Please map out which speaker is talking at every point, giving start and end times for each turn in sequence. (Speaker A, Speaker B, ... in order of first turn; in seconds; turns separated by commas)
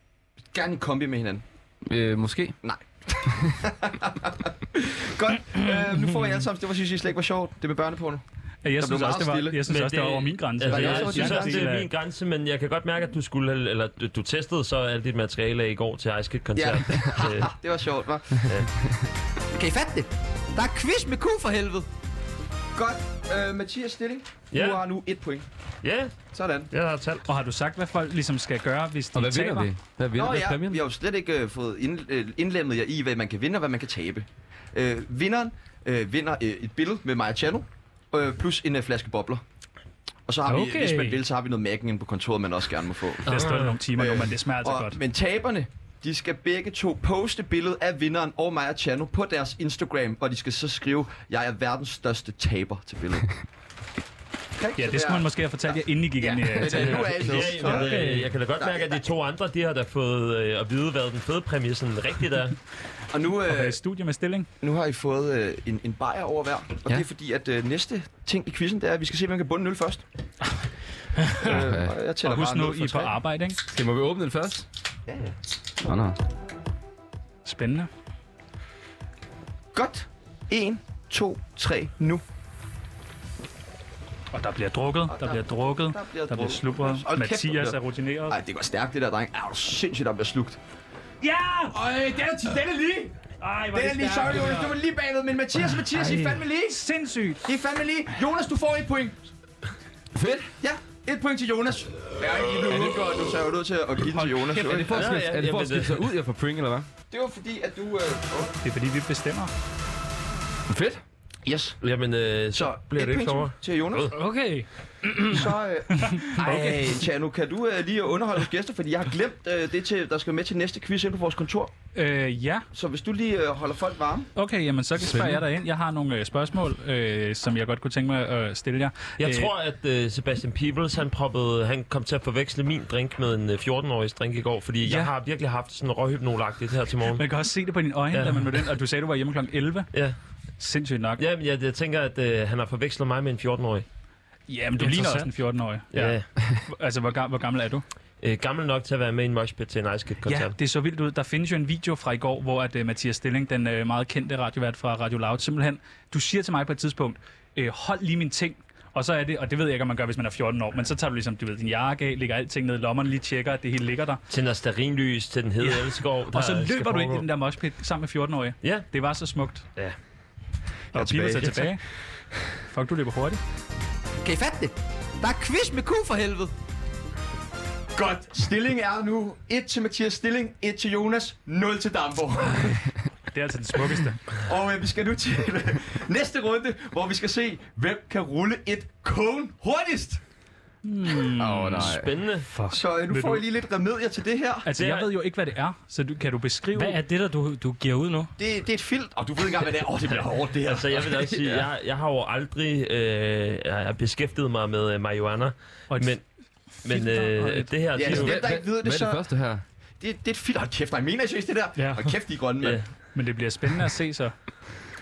Speaker A: 0.5-1.4, Speaker B: 1.9-2.6, Speaker A: 2.6-8.2, Speaker C: 8.6-11.9, Speaker A: 8.8-9.6, Speaker D: 9.7-17.5, Speaker A: 10.7-11.7, Speaker A: 16.5-18.6, Speaker D: 18.4-18.7, Speaker A: 19.5-21.9, Speaker A: 22.7-25.4, Speaker D: 24.5-24.8, Speaker D: 25.8-26.2, Speaker A: 26.3-26.7, Speaker D: 26.7-27.2, Speaker C: 27.2-29.7, Speaker B: 29.1-30.8, Speaker A: 30.1-39.4, Speaker A: 40.3-53.3, Speaker E: 40.5-41.2, Speaker D: 43.2-43.8, Speaker C: 43.2-45.0, Speaker A: 54.6-59.0, Speaker C: 54.8-58.0, Speaker D: 56.7-62.6, Speaker E: 57.8-58.2, Speaker A: 63.1-63.8, Speaker C: 63.4-64.5, Speaker A: 64.6-70.0, Speaker E: 71.2-71.5, Speaker A: 71.4-73.2, Speaker B: 71.4-71.9, Speaker C: 72.2-73.6, Speaker B: 73.7-74.7, Speaker A: 75.1-75.3, Speaker B: 75.8-76.2, Speaker C: 77.4-77.9, Speaker A: 79.7-82.2, Speaker C: 84.3-88.4, Speaker A: 85.1-90.6, Speaker C: 91.2-91.8, Speaker A: 91.7-93.1, Speaker C: 93.4-94.7, Speaker E: 93.6-94.3, Speaker A: 93.7-96.8, Speaker C: 95.9-97.5, Speaker A: 97.4-99.3, Speaker B: 100.1-100.5, Speaker A: 100.6-105.1, Speaker B: 102.7-103.0, Speaker C: 104.1-104.8, Speaker B: 104.5-106.9, Speaker D: 104.9-106.1, Speaker A: 107.1-108.6, Speaker C: 108.6-109.5, Speaker B: 110.7-111.0, Speaker A: 111.4-111.8, Speaker D: 111.8-114.1, Speaker A: 112.5-114.1, Speaker E: 114.1-115.5, Speaker A: 115.3-121.7, Speaker C: 116.0-116.8, Speaker C: 121.9-122.7, Speaker A: 122.7-124.3, Speaker C: 124.3-129.5, Speaker B: 125.1-125.4, Speaker D: 129.2-137.3, Speaker C: 134.8-135.1, Speaker C: 137.2-139.9, Speaker D: 138.1-138.6, Speaker C: 140.6-141.2, Speaker D: 141.2-143.8, Speaker C: 144.5-147.8, Speaker E: 144.8-145.3, Speaker D: 145.9-146.2, Speaker D: 148.2-150.5, Speaker C: 150.2-164.2, Speaker D: 164.3-167.2, Speaker C: 165.6-169.7, Speaker C: 170.9-171.8, Speaker A: 171.0-171.5, Speaker D: 171.0-171.7, Speaker C: 172.6-173.4, Speaker A: 174.2-176.5, Speaker A: 177.9-182.9, Speaker C: 183.3-184.2, Speaker A: 184.3-190.2, Speaker C: 190.8-191.9, Speaker B: 191.4-192.1, Speaker D: 191.4-192.5, Speaker E: 192.5-192.8, Speaker A: 192.7-194.7, Speaker C: 193.1-193.4, Speaker C: 194.6-197.0, Speaker D: 194.8-195.1, Speaker E: 196.7-198.3, Speaker A: 198.4-201.6, Speaker D: 200.6-206.2, Speaker C: 205.9-206.2, Speaker C: 206.7-207.7, Speaker D: 206.8-208.4, Speaker A: 207.9-209.2, Speaker B: 208.0-209.6, Speaker A: 210.0-212.8, Speaker E: 211.8-212.1, Speaker D: 212.6-212.9, Speaker C: 213.1-214.3